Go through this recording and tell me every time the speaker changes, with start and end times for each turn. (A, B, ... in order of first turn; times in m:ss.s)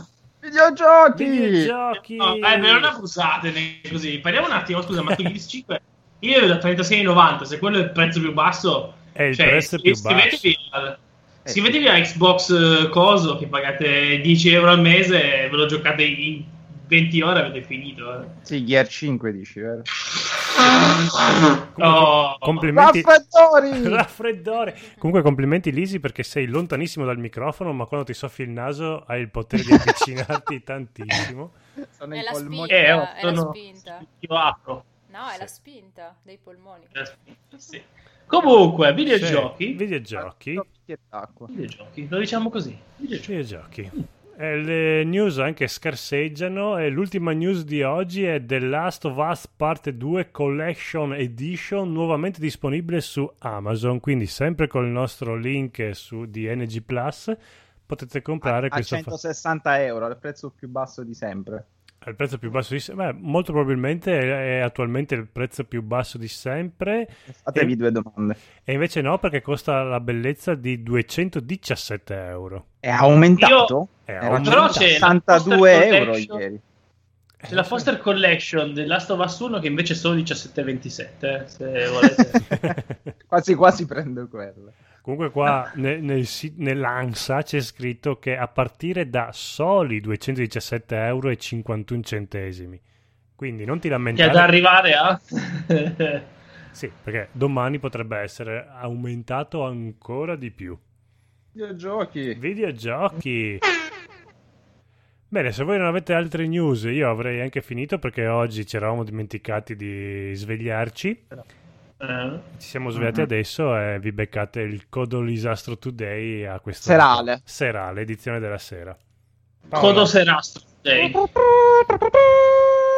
0:00.4-0:01.7 A
0:01.1-0:03.0 B
0:02.2-0:18.4 C
0:09.2-0:10.5 B
0:11.5-0:11.7 A
0:18.4-0:19.9 A
0:21.0-0:22.6 C
0:21.8-0:23.1 B
0:22.7-0:24.1 A
0:23.7-0:31.6 B
0:31.8-0:33.1 A
0:32.1-0:34.0 D
0:32.7-0:34.9 C
0:35.1-0:37.0 D
0:36.9-0:39.8 C
0:39.1-0:40.7 B
0:40.2-0:41.5 A
0:41.5-0:43.3 C
0:43.3-0:59.2 B
0:58.4-1:01.7 A
1:02.0-1:07.8 B
1:07.3-1:08.4 A
1:08.6-1:12.6 B
1:12.8-1:16.6 A
1:13.4-1:13.7 C
1:14.1-1:15.1 B
1:14.4-1:16.4 C
1:17.4-1:17.9 B
1:17.5-1:22.4 C
1:22.4-1:23.0 B
1:23.3-1:24.8 A
1:25.0-1:32.8 B
1:33.4-1:34.5 B
1:34.2-1:36.2 C
1:36.7-1:40.8 B
1:41.6-1:42.4 A
1:42.4-1:43.6 B
1:45.3-1:51.2 B
1:52.0-1:52.5 C
1:52.6-1:59.0 B
1:52.9-1:53.3 A
1:56.8-1:57.4 A
1:59.7-2:00.1 B
1:59.7-2:01.2 C
2:01.0-2:02.8 A